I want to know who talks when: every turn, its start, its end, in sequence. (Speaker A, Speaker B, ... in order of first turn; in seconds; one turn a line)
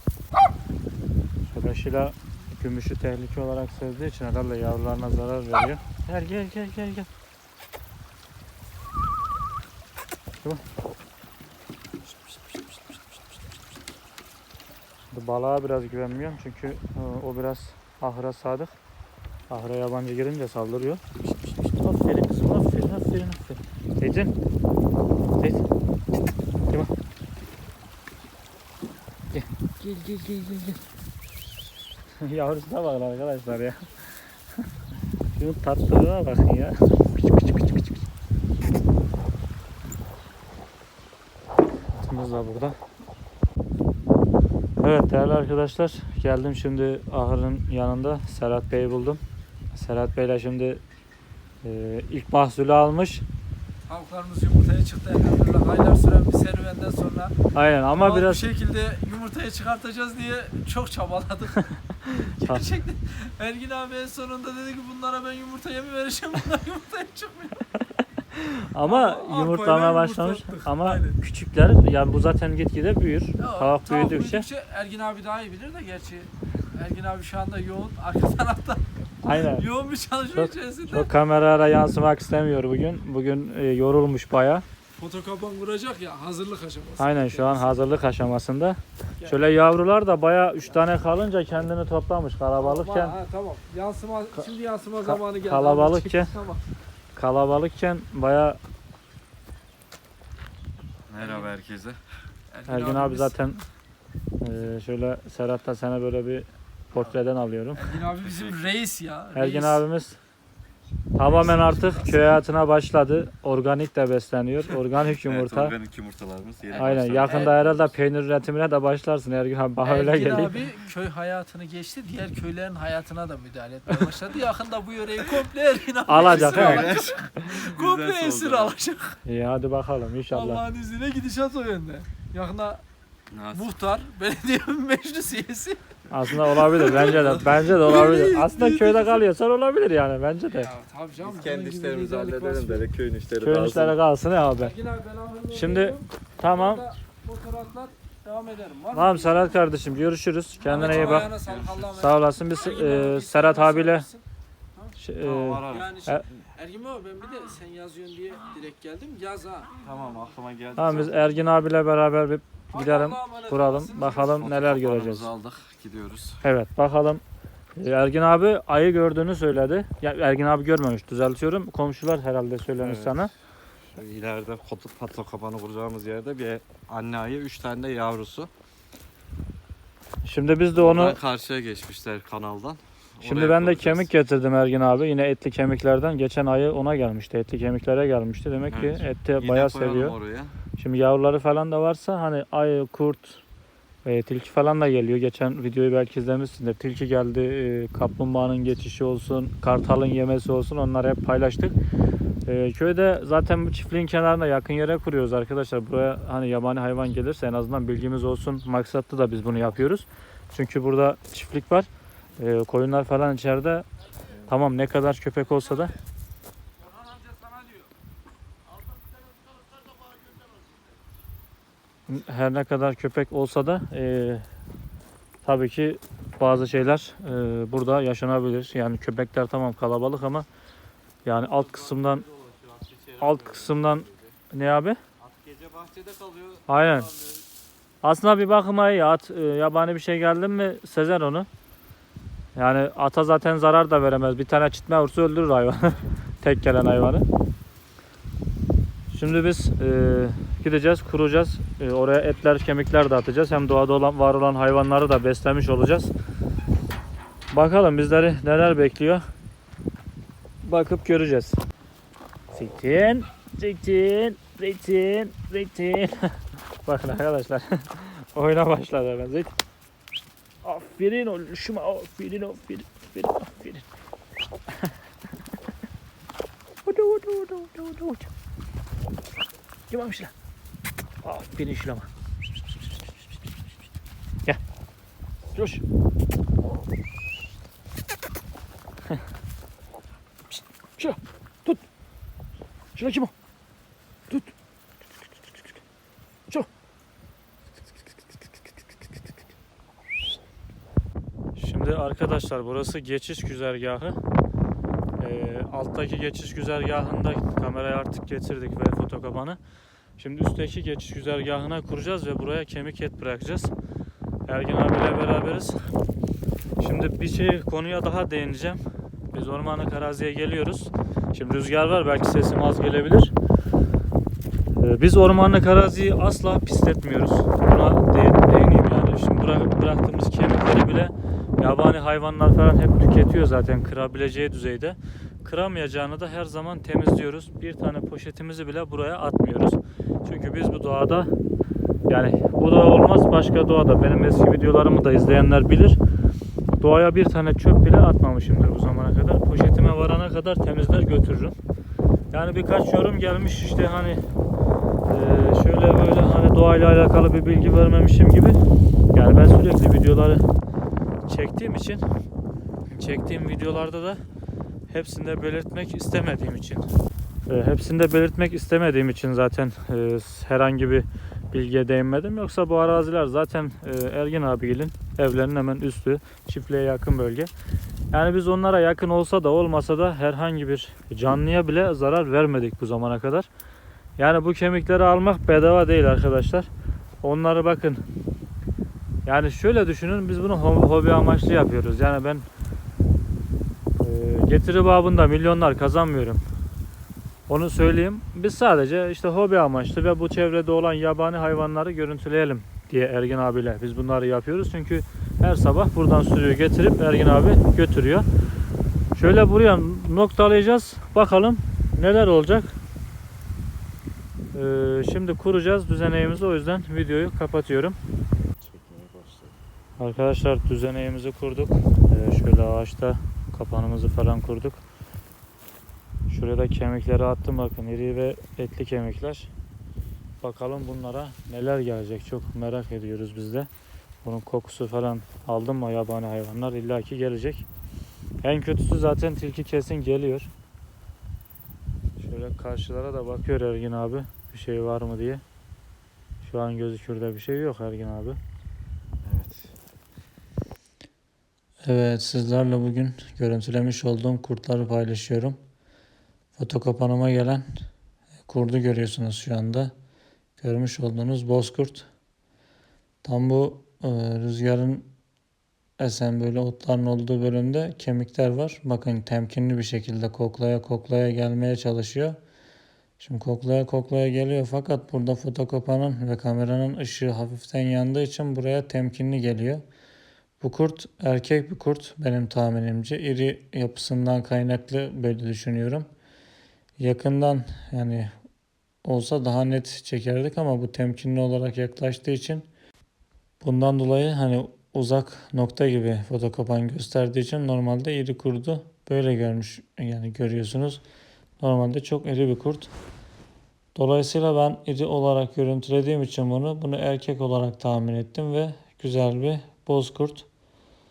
Speaker A: 1.5-7.1
Speaker A: 15.1-18.8
Speaker A: 19.5-24.3
Speaker A: 25.4-25.7
Speaker A: 29.3-30.8
Speaker A: 32.2-34.2
Speaker A: 35.3-38.0
Speaker A: 41.9-42.8
Speaker A: 44.8-49.2
Speaker A: 49.7-50.8
Speaker A: 51.6-53.2
Speaker B: 53.9-57.3
Speaker A: 57.5-58.5
Speaker B: 57.9-67.7
Speaker A: 62.1-62.6
Speaker A: 68.3-74.5
Speaker B: 68.8-71.2
Speaker B: 73.4-81.1
Speaker A: 79.2-79.7
Speaker A: 80.3-84.6
Speaker B: 85.0-87.8
Speaker A: 87.0-93.2
Speaker B: 92.6-96.6
Speaker A: 95.0-96.3
Speaker A: 97.1-98.6
Speaker C: 101.1-102.0
Speaker B: 101.2-101.5
Speaker B: 102.5-103.6
Speaker A: 102.7-103.6
Speaker A: 104.4-108.0
Speaker B: 107.8-109.8
Speaker A: 109.3-110.2
Speaker A: 111.2-115.8
Speaker B: 111.2-112.3
Speaker C: 115.2-117.9
Speaker B: 116.6-117.6
Speaker A: 116.8-120.6
Speaker B: 119.8-129.2
Speaker A: 126.1-126.9
Speaker C: 126.1-128.7
Speaker A: 129.2-130.6
Speaker B: 130.3-132.8
Speaker C: 133.3-133.7
Speaker B: 133.5-139.2
Speaker A: 136.1-140.7
Speaker B: 140.5-142.9
Speaker C: 141.2-143.9
Speaker A: 143.4-144.7
Speaker B: 144.6-149.6
Speaker A: 145.5-146.9
Speaker A: 148.9-151.3
Speaker B: 150.6-154.2
Speaker C: 150.7-151.8
Speaker A: 151.9-154.1
Speaker A: 155.0-156.2
Speaker C: 155.2-155.9
Speaker B: 155.6-159.7
Speaker C: 159.8-161.3
Speaker A: 160.8-165.3
Speaker B: 162.7-164.6
Speaker C: 164.2-166.4
Speaker A: 166.4-167.2
Speaker A: 167.8-173.3
Speaker C: 172.8-173.2
Speaker C: 173.9-178.5
Speaker A: 180.2-181.2
Speaker C: 180.7-184.1
Speaker A: 183.2-190.2
Speaker C: 188.7-190.6
Speaker A: 190.8-193.4
Speaker A: 194.1-201.8
Speaker A: 202.4-215.9
Speaker B: 216.8-217.9
Speaker A: 222.1-224.4
Speaker A: 225.4-230.4
Speaker A: 231.2-232.2
Speaker C: 231.6-234.3
Speaker A: 233.2-235.0
Speaker C: 235.2-237.4
Speaker A: 236.7-237.1
Speaker A: 238.0-241.5
Speaker A: 242.6-247.3
Speaker A: 249.1-256.1
Speaker A: 257.5-259.2
Speaker A: 260.6-261.6
Speaker A: 262.5-269.5
Speaker A: 270.6-273.9
Speaker A: 276.9-278.3
Speaker A: 279.9-280.3
Speaker A: 281.2-282.1
Speaker A: 285.6-285.8
Speaker A: 291.0-291.8
Speaker A: 292.9-293.3
Speaker A: 301.6-304.2
Speaker A: 305.2-309.6
Speaker A: 310.2-313.7
Speaker A: 314.5-315.8
Speaker A: 316.8-318.8
Speaker A: 319.3-323.3
Speaker A: 324.8-341.3
Speaker A: 342.1-346.0
Speaker A: 346.8-351.6
Speaker A: 352.3-354.2
Speaker A: 355.1-358.6
Speaker A: 359.1-360.5
Speaker A: 361.2-362.0
Speaker A: 362.9-364.2
Speaker A: 364.9-366.9
Speaker A: 367.5-377.5
Speaker A: 378.1-383.5
Speaker A: 384.2-386.7
Speaker A: 387.2-388.0
Speaker A: 389.2-392.5
Speaker A: 394.0-396.4
Speaker A: 397.5-408.3
Speaker A: 409.1-412.8
Speaker A: 414.5-418.0
Speaker C: 418.6-419.5
Speaker A: 420.0-424.8
Speaker A: 426.3-429.5
Speaker A: 430.4-433.7
Speaker A: 434.2-437.6
Speaker A: 438.4-440.5
Speaker A: 442.2-445.4
Speaker A: 446.4-448.4
Speaker C: 449.2-449.7
Speaker A: 451.9-455.6
Speaker A: 456.6-457.6
Speaker A: 458.5-459.9
Speaker A: 460.6-462.1
Speaker A: 463.2-465.1
Speaker A: 466.0-472.4
Speaker A: 473.2-479.8
Speaker A: 480.6-486.1
Speaker A: 487.0-488.3
Speaker A: 489.0-492.6
Speaker A: 493.6-501.0
Speaker A: 501.6-502.9
Speaker A: 503.9-510.5